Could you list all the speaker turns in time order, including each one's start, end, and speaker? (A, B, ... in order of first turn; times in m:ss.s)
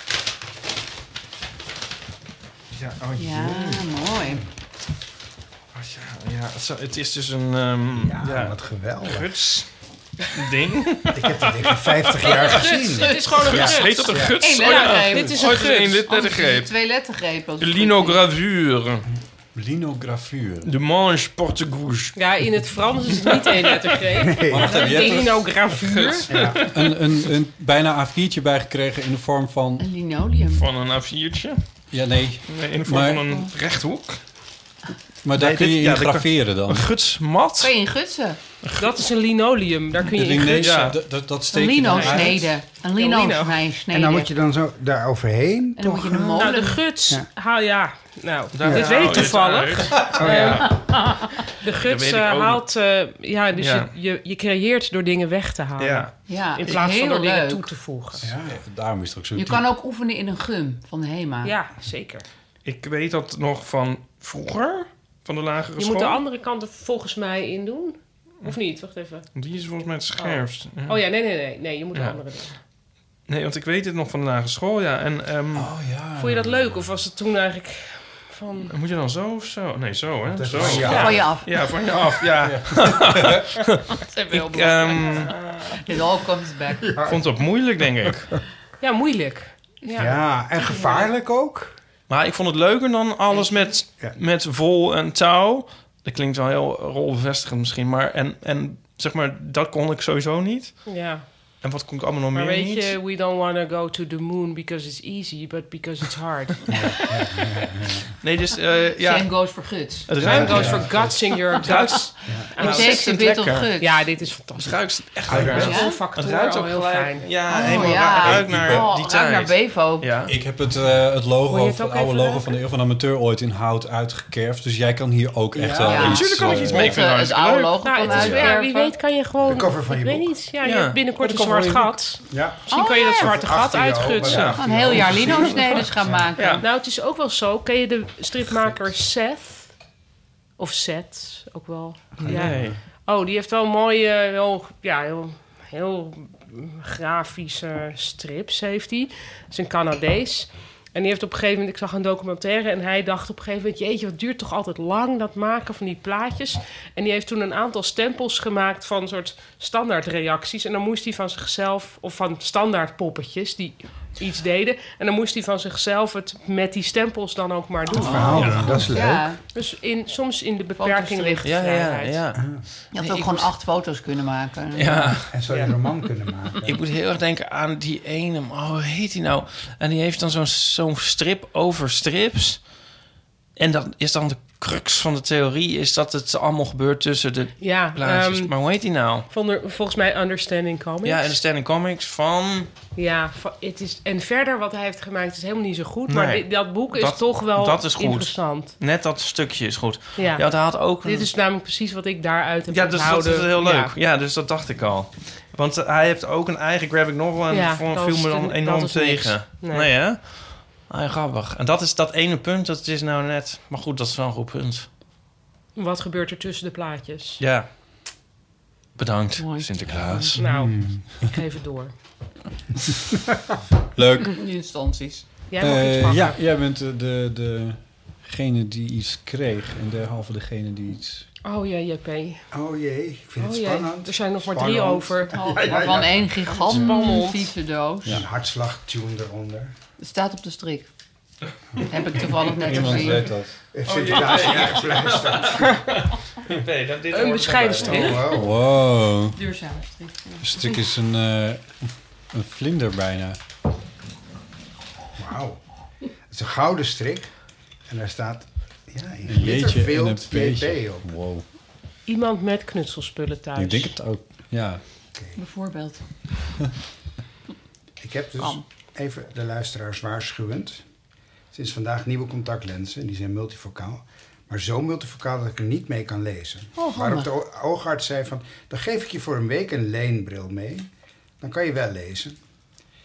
0:02.7-0:03.8 A
0:03.2-0:04.4 B
0:05.7-0:09.7 A
0:08.0-0:09.3 C
0:10.3-0:12.5 A
0:11.1-0:14.4 C
0:12.5-0:16.0 D
0:12.9-0:13.7 B
0:13.5-0:16.8 A
0:14.3-0:18.2 B
0:17.6-0:19.0 A
0:19.5-0:20.7 E
0:20.6-0:22.2 A
0:22.2-0:26.3 D
0:23.2-0:23.6 A
0:24.2-0:24.8 C
0:24.5-0:25.5 E
0:25.7-0:26.8 A
0:26.3-0:26.6 C
0:26.5-0:29.8 E
0:29.8-0:30.6 B
0:30.5-0:31.6 A
0:31.9-0:33.3 E
0:32.5-0:34.2 A
0:35.2-0:36.9 E
0:35.4-0:37.7 A
0:37.6-0:38.4 B
0:38.6-0:38.9 A
0:38.8-0:40.9 D
0:40.1-0:42.5 E
0:40.4-0:41.0 A
0:41.5-0:44.3 B
0:41.9-0:43.6 D
0:43.9-0:46.5 C
0:45.8-0:46.8 B
0:46.4-0:50.7 D
0:48.5-0:50.7 A
0:48.6-0:49.2 C
0:50.1-0:50.7 C
0:50.4-0:51.3 B
0:51.6-0:58.2 D
0:51.7-0:52.6 A
0:53.6-0:53.9 A
0:55.8-0:56.1 A
0:56.3-0:57.7 B
0:58.2-0:58.6 C
0:58.3-0:59.6 E
0:59.3-1:01.6 B
1:01.4-1:02.2 D
1:02.6-1:06.2 A
1:05.8-1:09.2 D
1:09.3-1:11.0 A
1:10.2-1:12.6 D
1:13.3-1:15.7 A
1:15.5-1:17.0 E
1:16.2-1:18.7 D
1:18.7-1:25.6 A
1:20.3-1:21.4 C
1:20.8-1:21.7 B
1:20.8-1:21.2 D
1:22.4-1:23.4 E
1:24.0-1:26.9 B
1:26.8-1:27.2 C
1:27.0-1:28.4 A
1:28.8-1:30.2 D
1:30.0-1:31.7 C
1:32.1-1:41.0 A
1:40.8-1:41.2 D
1:41.6-1:43.0 A
1:42.3-1:47.1 D
1:46.7-1:48.1 C
1:48.2-1:49.5 A
1:49.0-1:50.6 B
1:50.1-1:51.0 A
1:50.2-1:51.2 C
1:50.2-1:54.8 D
1:51.6-1:53.7 A
1:52.6-1:54.0 B
1:54.5-2:00.3 A
1:55.3-1:55.7 C
1:55.4-1:58.2 D
1:55.5-1:56.0 B
1:57.5-2:00.2 B
1:58.2-1:58.9 E
2:00.3-2:07.0 E
2:01.5-2:02.5 D
2:05.5-2:06.1 C
2:05.8-2:09.0 B
2:05.9-2:08.4 A
2:07.8-2:14.6 D
2:08.1-2:08.4 E
2:09.4-2:10.3 C
2:10.6-2:12.0 A
2:12.3-2:16.3 C
2:12.7-2:13.5 B
2:14.2-2:16.6 A
2:14.5-2:16.6 B
2:16.6-2:19.7 D
2:20.6-2:48.8 D
2:22.2-2:22.8 C
2:22.2-2:22.8 A
2:47.9-2:49.3 C
2:48.0-2:48.9 A
2:48.8-2:49.4 B
2:49.5-2:52.2 D
2:50.8-2:51.4 B
2:51.4-2:52.5 A
2:52.4-2:52.6 C
2:52.9-2:55.2 B
2:53.0-2:53.4 A
2:54.7-2:55.3 A
2:55.3-2:56.7 C
2:56.6-3:02.7 A
3:03.6-3:09.3 A
3:07.6-3:08.5 D
3:09.3-3:11.4 D
3:11.0-3:12.7 A
3:12.9-3:18.8 D
3:16.1-3:21.3 A
3:20.2-3:23.9 D
3:22.7-3:34.9 A
3:27.5-3:29.9 D
3:35.7-3:37.4 D
3:37.4-3:37.7 A
3:39.0-3:40.4 A
3:39.4-3:39.7 B
3:40.1-3:40.4 E
3:40.4-3:41.9 D
3:40.4-3:41.0 C
3:44.0-3:44.4 E
3:44.3-3:45.3 B
3:45.5-3:46.4 D
3:45.6-3:51.2 E
3:51.4-3:52.4 D
3:52.5-3:56.9 C
3:53.4-3:55.7 D
3:55.3-3:58.2 B
3:56.6-3:57.5 D
3:58.0-3:59.7 C
4:00.0-4:00.9 B
4:01.9-4:03.3 B
4:02.6-4:03.5 E
4:03.7-4:05.8 C
4:03.8-4:08.3 A
4:07.1-4:08.3 D
4:07.8-4:08.5 C
4:08.3-4:09.4 E
4:09.3-4:10.7 B
4:10.4-4:13.4 E
4:15.2-4:15.6 C
4:16.3-4:17.3 C
4:17.9-4:21.1 C
4:19.2-4:21.4 E
4:22.0-4:24.0 D
4:23.6-4:24.8 E
4:25.4-4:26.0 B
4:28.0-4:30.8 C
4:28.4-4:28.6 B
4:31.5-4:40.9 C
4:36.8-4:37.3 B
4:41.4-4:42.4 C